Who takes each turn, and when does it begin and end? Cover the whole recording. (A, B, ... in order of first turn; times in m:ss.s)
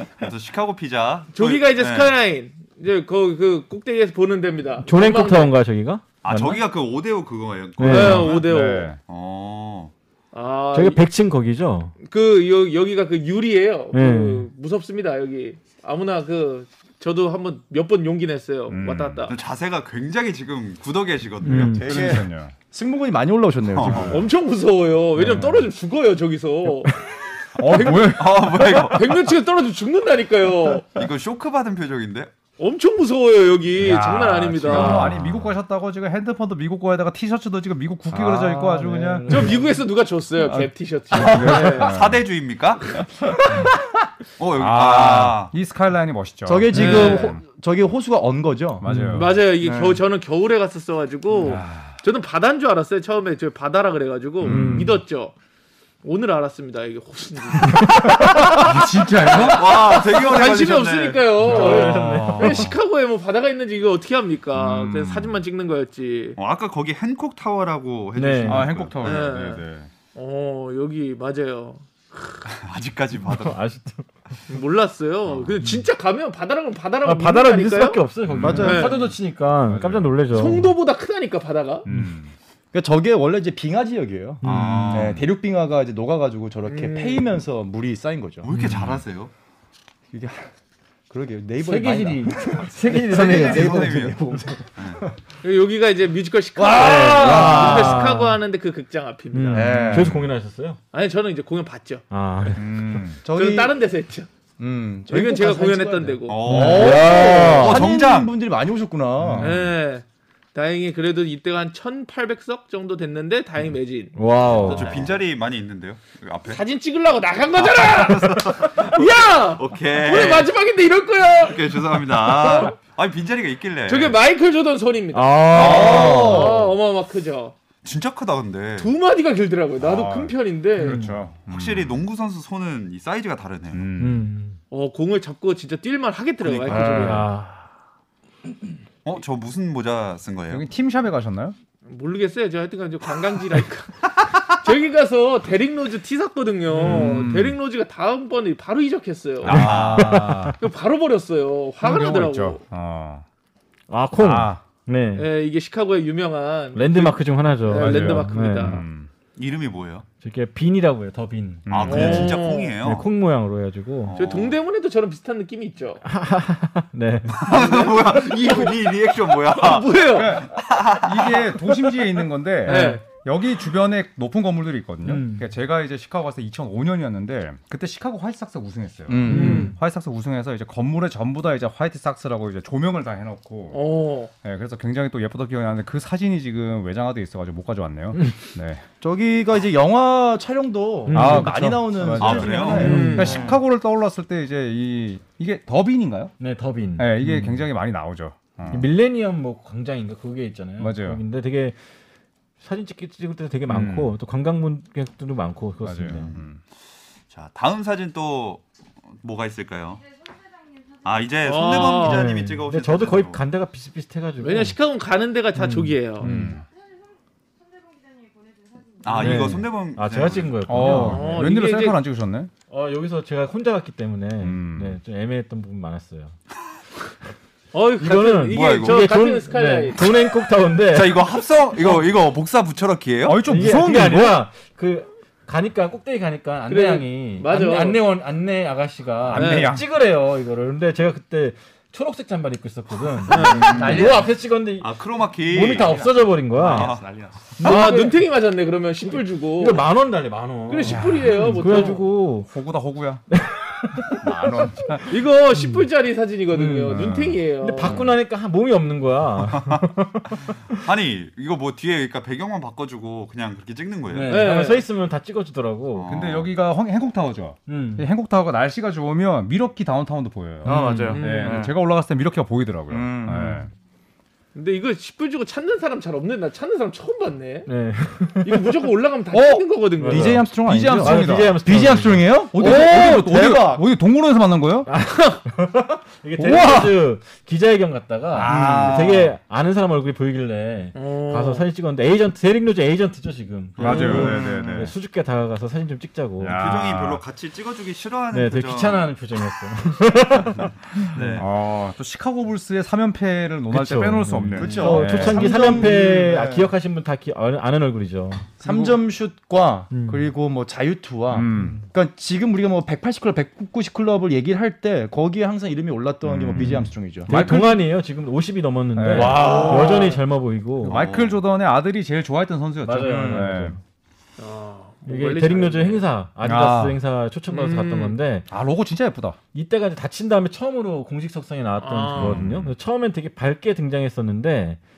0:00.2-0:02.1 A
0:01.3-0:05.6 B
0:04.8-0:06.6 C
0:06.2-0:08.5 A
0:07.8-0:08.3 C
0:07.9-0:08.9 B
0:08.0-0:09.0 D
0:09.0-0:09.9 A
0:10.3-0:11.0 B
0:10.7-0:11.9 C
0:12.0-0:19.4 B
0:13.9-0:14.5 C
0:18.7-0:19.3 D
0:19.3-0:22.2 A
0:21.4-0:22.0 C
0:21.5-0:24.2 E
0:21.7-0:22.5 D
0:23.7-0:24.2 A
0:23.9-0:24.2 D
0:24.0-0:26.9 B
0:25.2-0:25.5 C
0:25.2-0:25.6 D
0:27.6-0:28.9 D
0:27.6-0:31.0 B
0:27.9-0:29.2 A
0:31.0-0:32.3 A
0:32.6-0:35.2 B
0:33.8-0:39.6 D
0:34.7-0:35.2 E
0:38.1-0:39.7 C
0:39.3-0:42.0 B
0:40.4-0:42.3 D
0:41.5-0:43.0 A
0:44.4-0:45.5 A
0:44.6-0:47.4 D
0:46.5-0:48.8 E
0:46.7-0:47.4 B
0:48.8-0:49.5 D
0:48.9-0:49.3 C
0:49.1-0:55.3 B
0:49.6-0:50.0 E
0:51.4-0:52.0 D
0:54.4-0:55.0 C
0:54.5-0:54.8 D
0:56.0-1:06.4 B
0:57.7-0:58.6 C
0:58.4-0:59.8 D
0:59.4-1:02.7 A
1:01.4-1:02.6 D
1:01.5-1:02.7 C
1:04.6-1:05.4 A
1:06.4-1:09.4 A
1:08.2-1:08.7 C
1:08.4-1:09.9 D
1:09.0-1:12.4 B
1:12.5-1:13.6 A
1:13.2-1:14.1 C
1:14.5-1:18.0 B
1:15.3-1:15.6 A
1:17.0-1:20.7 C
1:18.3-1:19.1 D
1:18.4-1:19.0 E
1:18.6-1:19.1 B
1:19.7-1:20.5 D
1:20.3-1:21.9 B
1:21.9-1:22.3 D
1:21.9-1:22.2 C
1:22.7-1:28.5 E
1:24.4-1:25.1 C
1:24.4-1:25.2 A
1:26.6-1:27.3 B
1:28.4-1:29.3 A
1:28.5-1:29.0 D
1:30.1-1:30.5 E
1:31.1-1:35.2 E
1:31.6-1:34.2 C
1:33.1-1:34.2 A
1:35.4-1:40.0 B
1:36.6-1:38.1 E
1:36.8-1:38.4 C
1:39.3-1:40.8 C
1:39.5-1:40.2 E
1:39.9-1:40.2 D
1:40.9-1:42.0 B
1:42.1-1:43.1 C
1:42.6-1:43.2 D
1:43.2-1:43.7 E
1:43.4-1:44.3 B
1:44.6-1:49.5 E
1:45.1-1:46.4 B
1:46.3-1:48.3 A
1:46.4-1:47.8 C
1:49.3-1:49.5 D
1:49.4-1:55.1 B
1:54.2-1:55.0 C
1:54.5-1:54.8 D
1:54.6-1:56.6 A
1:56.5-2:02.7 B
1:57.6-2:00.5 A
2:01.4-2:04.2 A
2:03.9-2:07.5 B
2:05.1-2:06.5 C
2:05.5-2:06.7 E
2:05.6-2:06.3 A
2:07.8-2:08.9 A
2:08.8-2:11.0 B
2:09.8-2:12.0 D
2:10.8-2:11.2 C
2:11.5-2:13.8 A
2:13.7-2:14.3 D
2:14.0-2:14.6 C
2:14.7-2:17.3 B
2:16.4-2:16.8 A
2:16.7-2:17.2 E
2:16.8-2:17.7 C
2:19.0-2:20.7 A
2:20.5-2:21.6 D
2:21.8-2:29.8 B
2:26.8-2:27.6 D
2:26.8-2:27.1 C
2:29.4-2:30.6 D
2:29.4-2:30.3 A
2:29.5-2:30.6 C
2:30.6-2:32.6 B
2:31.8-2:33.2 D
2:33.9-2:35.3 C
2:34.2-2:34.6 D
2:35.2-2:38.8 B
2:36.7-2:38.8 C
2:37.7-2:39.1 D
2:39.4-2:40.1 A
2:40.2-2:44.2 C
2:41.7-2:42.4 D
2:41.7-2:43.1 A
2:41.8-2:42.8 B
2:44.0-2:44.6 A
2:44.2-2:46.0 B
2:46.0-2:47.4 C
2:47.4-2:51.5 A
2:47.4-2:50.4 B
2:50.1-3:03.8 D
2:52.6-2:53.0 B
2:52.7-2:53.0 C
2:55.0-2:55.5 C
2:59.1-2:59.7 E
2:59.3-2:59.8 C
2:59.3-2:59.7 B
3:03.7-3:04.3 B
3:04.4-3:08.8 D
3:09.0-3:13.5 E
3:11.1-3:12.0 C
3:11.1-3:16.3 D
3:12.2-3:13.6 A
3:12.6-3:13.4 C
3:12.8-3:13.5 B
3:16.4-3:17.6 C
3:17.0-3:18.9 D
3:18.7-3:21.8 C
3:20.8-3:21.2 D
3:22.6-3:26.3 C
3:23.7-3:24.1 D
3:25.8-3:26.6 D
3:26.2-3:26.5 A
3:27.3-3:30.0 A
3:29.9-3:31.8 F
3:31.0-3:33.4 A
3:31.4-3:32.3 B
3:32.0-3:34.8 C
3:34.4-3:36.3 B
3:35.6-3:36.5 C
3:36.2-3:36.6 D
3:36.6-3:39.5 F
3:39.0-3:40.8 A
3:39.1-3:41.4 C
3:40.6-3:42.5 D
3:40.8-3:42.0 B
3:42.7-3:46.3 C
3:44.4-3:45.0 D
3:47.7-3:50.1 B
3:48.0-3:51.2 C
3:48.5-3:49.1 A
3:50.9-3:53.4 A
3:53.2-3:54.4 D
3:53.4-4:06.9 C
3:56.7-3:58.1 B
3:59.3-3:59.9 D
3:59.4-3:59.7 B
4:03.3-4:04.0 B
4:03.5-4:07.1 A
4:03.7-4:04.2 E
4:06.6-4:07.3 D
4:06.7-4:07.3 E
4:07.6-4:08.2 C
4:07.6-4:09.8 B
4:09.5-4:12.5 C
4:10.7-4:12.0 B
4:10.9-4:13.2 D
4:13.3-4:15.0 C
4:14.2-4:15.1 D
4:15.1-4:18.1 B
4:15.6-4:15.8 C
4:16.5-4:17.1 C
4:16.9-4:18.0 D
4:17.6-4:20.6 C
4:19.4-4:19.8 A
4:20.7-4:24.5 A
4:24.1-4:26.2 C
4:24.3-4:24.8 B
4:25.9-4:26.6 A
4:26.1-4:33.7 D
4:27.7-4:28.1 C
4:30.6-4:31.2 C
4:30.6-4:31.7 E
4:31.1-4:31.7 B
4:32.9-4:33.6 E
4:34.5-4:37.7 B
4:37.7-4:38.6 C
4:38.4-4:40.4 B
4:39.3-4:41.7 D
4:40.0-4:40.4 C
4:40.0-4:43.9 E
4:41.0-4:42.8 C
4:42.4-4:44.9 D
4:44.9-4:56.6 C
4:46.4-4:47.0 D
4:48.3-4:49.4 D
4:48.4-4:49.1 E
4:51.0-4:51.7 B
4:53.8-4:54.6 A
4:53.8-4:54.9 D
4:54.0-4:54.9 E
4:56.4-4:57.2 D
4:56.4-4:59.1 A
4:58.3-5:01.2 C
5:01.0-5:01.5 A
5:01.2-5:06.0 D
5:03.7-5:08.5 C
5:04.6-5:05.0 A
5:04.6-5:06.7 E
5:08.6-5:17.3 E
5:08.6-5:09.0 D
5:09.9-5:10.3 C
5:11.3-5:11.8 D
5:16.2-5:17.8 D
5:16.6-5:21.1 C
5:19.0-5:20.0 D
5:19.1-5:19.9 E
5:19.2-5:20.2 B
5:20.8-5:23.8 D
5:20.9-5:21.5 A
5:22.8-5:23.8 C
5:23.0-5:23.5 E
5:24.4-5:26.1 B
5:25.1-5:28.5 C
5:26.4-5:27.0 D
5:27.5-5:28.2 B
5:28.5-5:29.4 D
5:29.5-5:34.8 C
5:31.8-5:32.4 B
5:32.1-5:32.7 D